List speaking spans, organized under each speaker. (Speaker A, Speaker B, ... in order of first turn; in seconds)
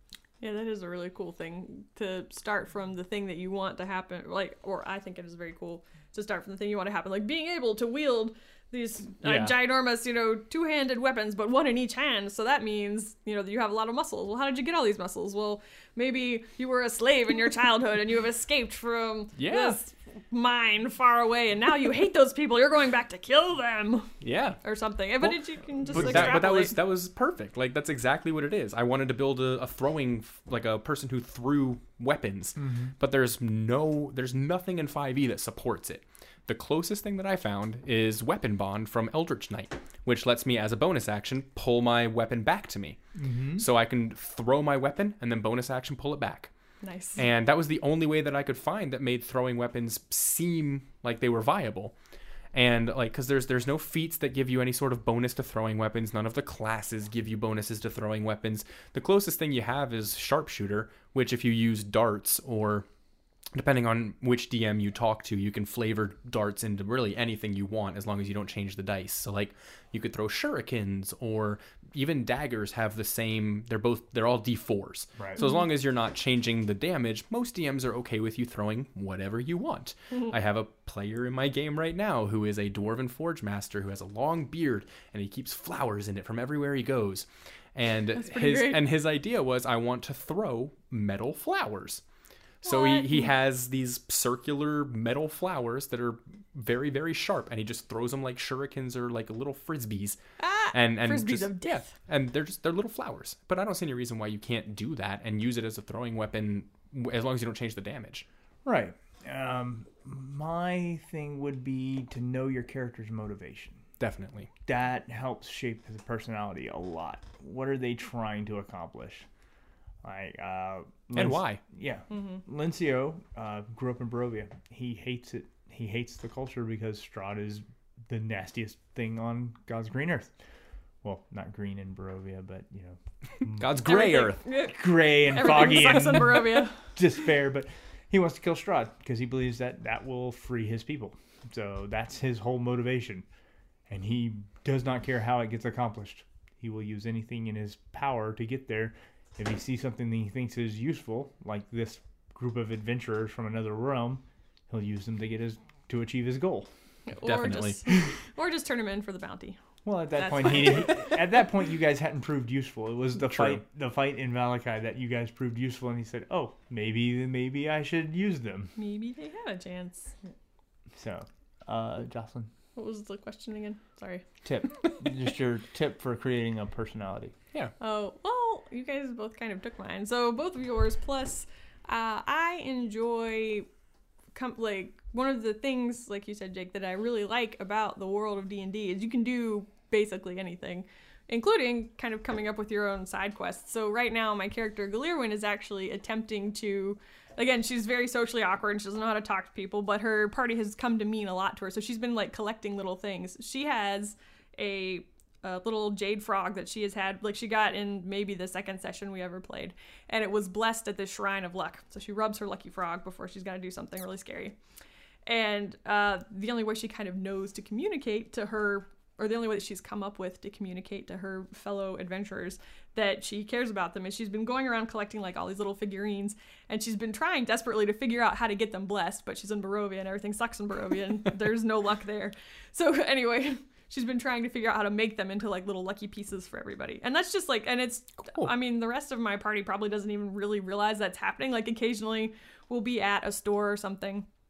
Speaker A: 0.4-24.1, 24.6-26.8, 46.8-47.2, 75.4-75.7, 88.2-88.9, 92.6-93.3, 100.4-101.9, 122.1-122.4, 133.8-136.8, 157.1-159.6, 160.2-161.2, 168.8-170.1, 172.8-174.3, 177.8-183.7, 184.3-214.6, 215.3-244.3
Speaker B: 9.2-9.6, 19.4-19.8, 24.2-24.6, 25.9-43.0, 43.6-46.5, 47.2-52.0, 52.5-62.9, 63.5-92.0, 92.6-100.2, 100.7-108.3, 114.0-114.5, 121.2-121.6, 133.5-134.4, 157.1-158.0, 163.2-163.6, 238.3-238.5
Speaker C: 25.9-26.4, 32.6-32.9, 43.2-43.6, 75.2-75.4, 108.7-113.8, 114.7-119.3, 120.0-130.3, 131.0-134.0, 134.6-143.2, 143.9-156.7, 159.8-168.7, 170.9-172.5, 174.4-177.3